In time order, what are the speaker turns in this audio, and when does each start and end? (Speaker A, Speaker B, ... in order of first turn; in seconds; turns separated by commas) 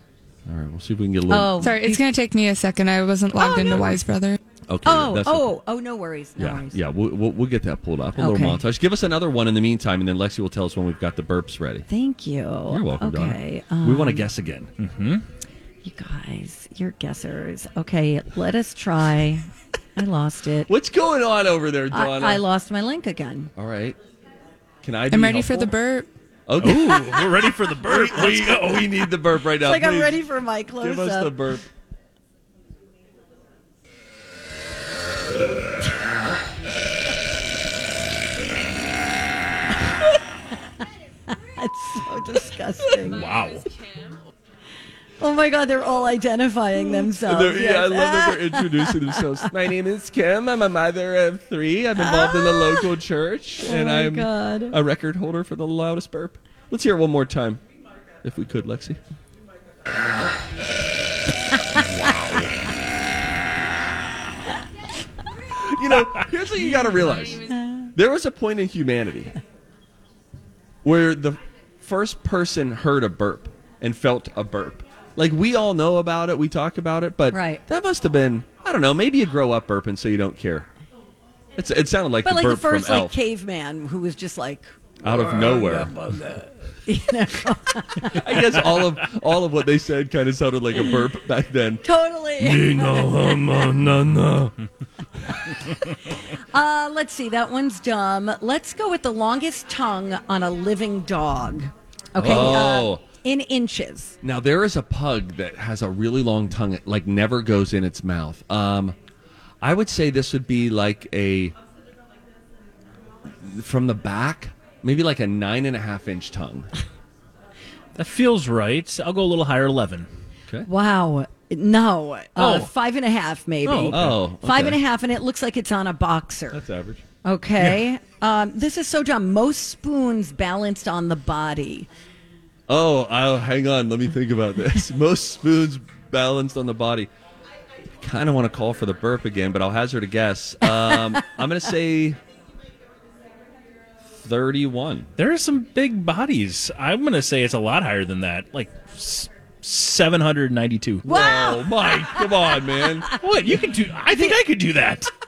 Speaker A: 0.5-1.7, Speaker B: 1.3-2.1, Speaker C: 1.6-4.4, Speaker B: 3.4-4.0, Speaker A: 4.7-5.5, Speaker B: 4.8-6.8, Speaker A: 6.4-11.9, Speaker B: 8.2-8.6, Speaker B: 11.9-14.3, Speaker A: 12.7-14.7, Speaker D: 14.8-15.2, Speaker B: 15.8-20.7, Speaker A: 20.7-22.4, Speaker B: 21.9-23.5, Speaker A: 23.6-24.0, Speaker A: 24.8-25.7, Speaker C: 25.1-26.1, Speaker A: 26.5-30.2, Speaker D: 26.6-29.1, Speaker B: 29.6-31.4, Speaker A: 30.8-31.6, Speaker B: 41.5-43.2, Speaker D: 43.1-43.6, Speaker B: 45.2-49.2, Speaker A: 46.9-57.6, Speaker B: 52.0-52.9, Speaker B: 53.6-54.8, Speaker A: 58.2-59.0, Speaker A: 65.5-69.4, Speaker A: 70.8-80.7, Speaker B: 77.3-77.6, Speaker A: 81.6-83.1, Speaker B: 82.2-84.7, Speaker A: 85.0-86.0, Speaker D: 86.0-86.4, Speaker B: 86.9-88.3, Speaker A: 88.1-91.8, Speaker B: 91.8-93.2, Speaker A: 92.4-94.6, Speaker B: 96.1-104.2, Speaker A: 102.2-103.0, Speaker A: 104.2-109.0, Speaker A: 109.6-111.5, Speaker A: 113.4-116.7, Speaker D: 118.0-120.1, Speaker B: 120.7-126.6, Speaker D: 122.4-122.7, Speaker D: 123.7-124.2, Speaker A: 123.9-124.8, Speaker A: 126.5-127.0, Speaker B: 127.2-131.9, Speaker A: 132.7-137.1, Speaker A: 138.0-142.2, Speaker A: 144.1-145.1, Speaker D: 145.2-151.1, Speaker A: 151.1-153.2, Speaker B: 151.1-152.3, Speaker D: 153.2-155.1, Speaker B: 154.1-154.4